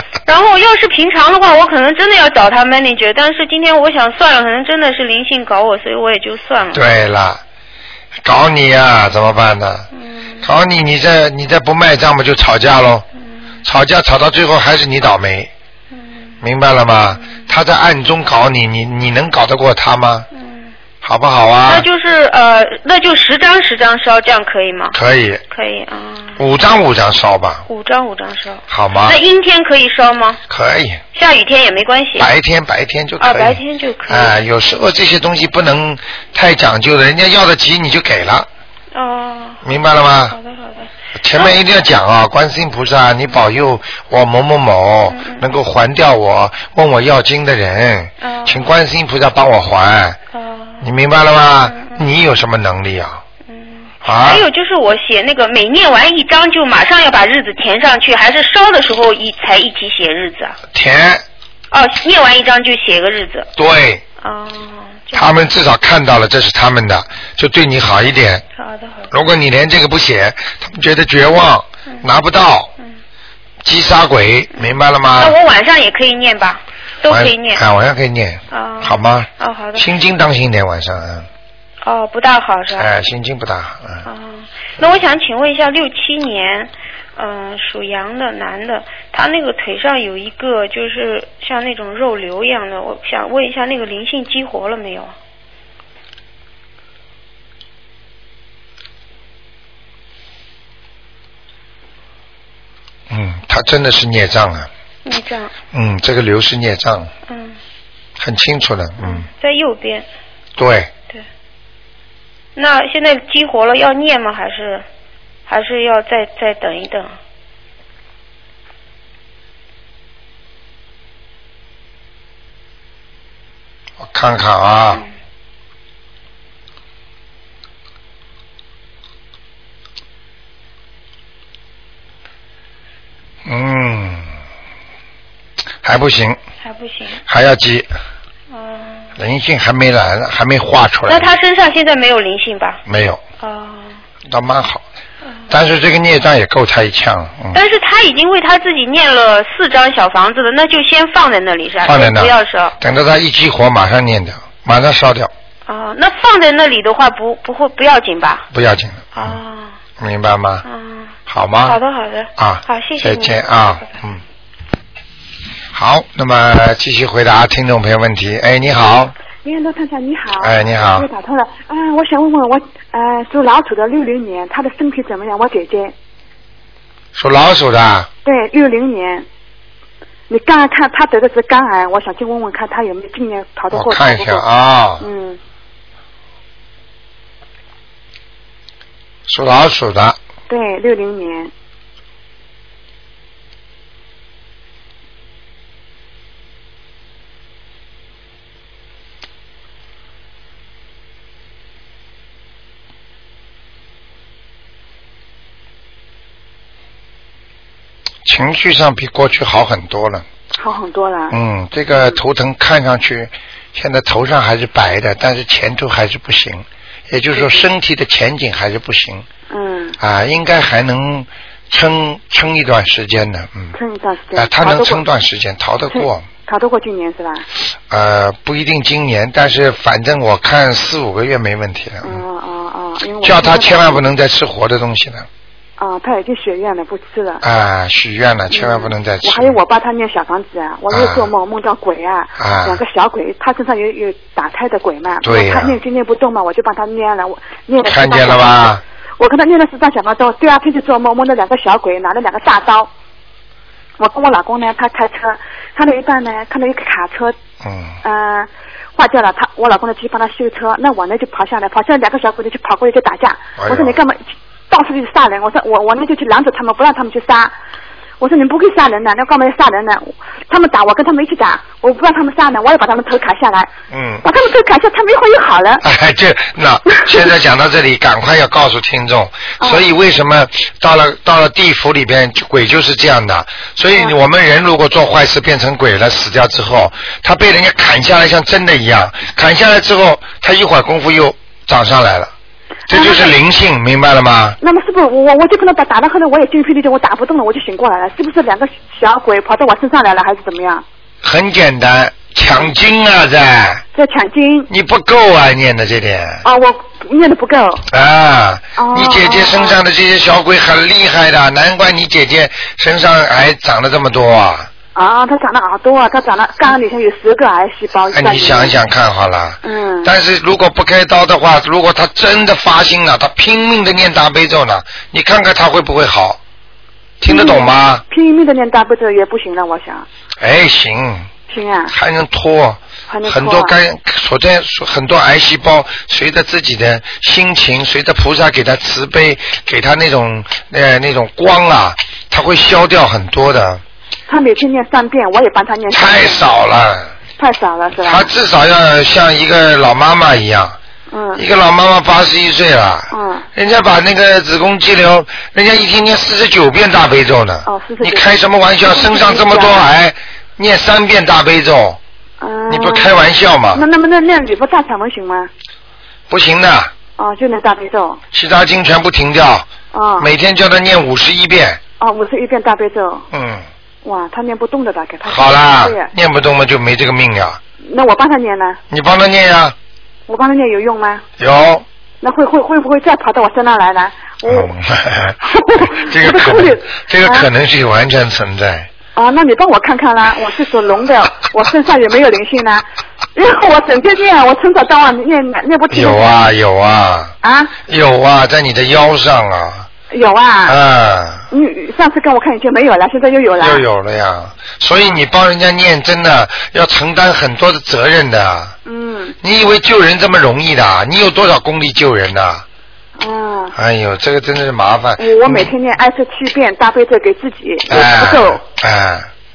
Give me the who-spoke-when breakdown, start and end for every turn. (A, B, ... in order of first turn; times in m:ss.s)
0:00.2-0:06.8 A
0:06.7-0:07.4 B
0:08.2-0:09.9 B
0:10.0-0:10.4 A
0:10.4-0:13.0 B
0:13.6-0:15.5 B
0:15.9-0:16.3 A
0:16.4-0:20.3 B
0:20.3-0:20.7 A
0:21.0-0:21.9 B
0:21.6-0:25.0 A
0:24.9-0:25.4 B
0:25.5-0:26.4 A
0:26.4-0:27.6 B
0:27.7-0:30.4 A
0:28.7-0:29.2 B
0:30.5-0:31.0 B
0:31.1-0:32.3 A
0:32.2-0:38.5 B
0:33.2-0:34.3 A
0:38.9-0:39.6 A
0:39.6-0:40.4 B
0:40.2-0:41.5 A
0:41.2-0:50.2 B
0:45.1-0:45.4 A
0:48.2-0:48.6 A
0:50.3-0:50.8 A
0:50.8-0:53.2 B
0:51.6-0:52.0 A
0:53.5-1:00.6 A
0:54.0-0:54.4 B
1:00.7-1:01.2 B
1:01.7-1:03.5 A
1:03.6-1:04.0 B
1:04.2-1:05.3 A
1:05.1-1:08.4 B
1:08.6-1:09.1 A
1:09.1-1:12.7 B
1:13.6-1:15.4 B
1:14.6-1:17.6 A
1:17.1-1:21.3 B
1:18.5-1:19.8 A
1:21.8-1:22.9 A
1:22.8-1:24.1 B
1:24.0-1:35.1 A
1:43.1-1:44.7 B
1:45.0-1:45.5 A
1:45.7-1:47.1 B
1:47.3-1:47.6 A
1:48.2-1:49.2 B
1:49.0-1:50.1 A
1:50.6-1:50.9 B
1:52.5-1:54.8 A
1:55.5-1:57.1 A
2:04.0-2:05.0 B
2:13.4-2:14.3 B
2:15.8-2:16.4 B
2:16.6-2:17.2 A
2:17.3-2:17.9 B
2:18.5-2:19.1 A
2:19.2-2:21.3 B
2:21.1-2:22.8 A
2:22.8-2:23.2 B
2:23.4-2:23.9 A
2:24.3-2:24.8 B
2:25.5-2:27.6 B
2:27.5-2:32.7 A
2:31.8-2:35.3 B
2:35.7-2:38.5 A
2:38.5-2:39.4 B
2:39.1-2:39.7 A
2:40.0-2:40.6 B
2:40.6-2:43.9 A
2:41.3-2:41.8 B
2:42.4-2:44.2 B
2:45.7-2:49.1 B
2:49.4-2:55.9 C
2:50.4-2:51.1 B
2:57.1-2:58.1 B
2:58.2-2:59.2 C
3:00.3-3:04.4 C
3:03.7-3:05.0 B
3:05.0-3:05.4 C
3:09.3-3:10.2 B
3:10.5-3:11.5 C
3:28.2-3:30.2 B
3:30.6-3:31.4 C
3:31.3-3:39.2 B
3:37.3-3:37.7 C
3:39.5-3:40.0 C
3:40.0-3:43.7 B
3:43.7-3:45.0 C
3:44.3-3:46.2 B
3:45.9-3:47.5 C
3:47.9-3:52.2 B
3:52.0-3:54.1 C
3:53.2-3:55.3 B
3:55.8-3:57.4 C
3:57.4-3:59.6 B
3:58.5-4:12.9 C
4:00.9-4:01.3 B
4:02.4-4:02.8 B
4:05.2-4:05.8 B
4:07.8-4:08.8 B
4:14.0-4:17.3 C
4:17.6-4:18.0 B
4:18.0-4:27.5 C
4:23.6-4:24.0 B
4:28.2-4:33.7 C
4:33.9-4:34.2 B
4:34.2-4:35.8 C
4:35.8-4:52.3 B
4:36.9-4:37.2 C
4:39.6-4:39.9 C
4:52.9-4:54.6 B
4:52.9-4:53.4 C
4:54.6-5:00.8 C
5:01.2-5:03.8 B
5:03.9-5:04.7 C
5:04.7-5:06.4 B
5:06.4-5:07.8 C
5:07.9-5:14.7 B
5:08.8-5:09.8 C
5:14.9-5:18.8 C
5:18.1-5:26.4 B
5:19.6-5:20.1 C
5:27.2-5:28.0 B
5:27.2-5:30.0 C
5:30.4-5:31.3 B
5:31.5-5:31.9 C
5:31.9-5:43.8 B
5:33.1-5:33.7 C
5:44.3-5:46.4 C
5:45.9-5:47.1 B
5:47.4-5:48.3 C
5:48.0-5:50.8 B
5:51.1-5:51.4 C
5:51.4-6:02.0 B
5:53.1-5:53.5 C
5:57.6-5:59.8 C
6:02.4-6:03.2 C
6:02.7-6:03.8 B
6:03.7-6:05.5 C
6:06.3-6:06.9 B
6:07.2-6:08.2 C
6:08.3-6:09.7 B
6:09.9-6:10.3 C
6:10.2-6:11.8 B
6:12.0-6:13.3 C
6:13.3-6:13.6 B
6:14.0-6:16.1 C
6:15.2-6:17.6 B
6:17.8-6:18.8 C
6:18.9-6:19.7 B
6:20.3-6:21.2 C
6:21.4-6:21.8 B
6:22.2-6:24.7 C
6:24.4-6:28.9 B
6:25.4-6:27.5 C
6:29.1-6:32.8 C
6:33.3-6:36.4 C
6:35.9-6:37.3 B
6:37.4-6:37.7 C
6:37.9-6:39.9 B
6:40.1-6:40.8 C
6:40.6-6:41.5 B
6:41.5-6:43.8 C
6:43.6-6:48.7 B
6:44.9-6:45.2 C
6:48.8-6:49.4 C
6:49.4-6:52.6 B
6:53.2-6:53.7 C
6:53.7-6:55.7 B
6:55.2-6:58.6 C
6:57.9-6:59.3 B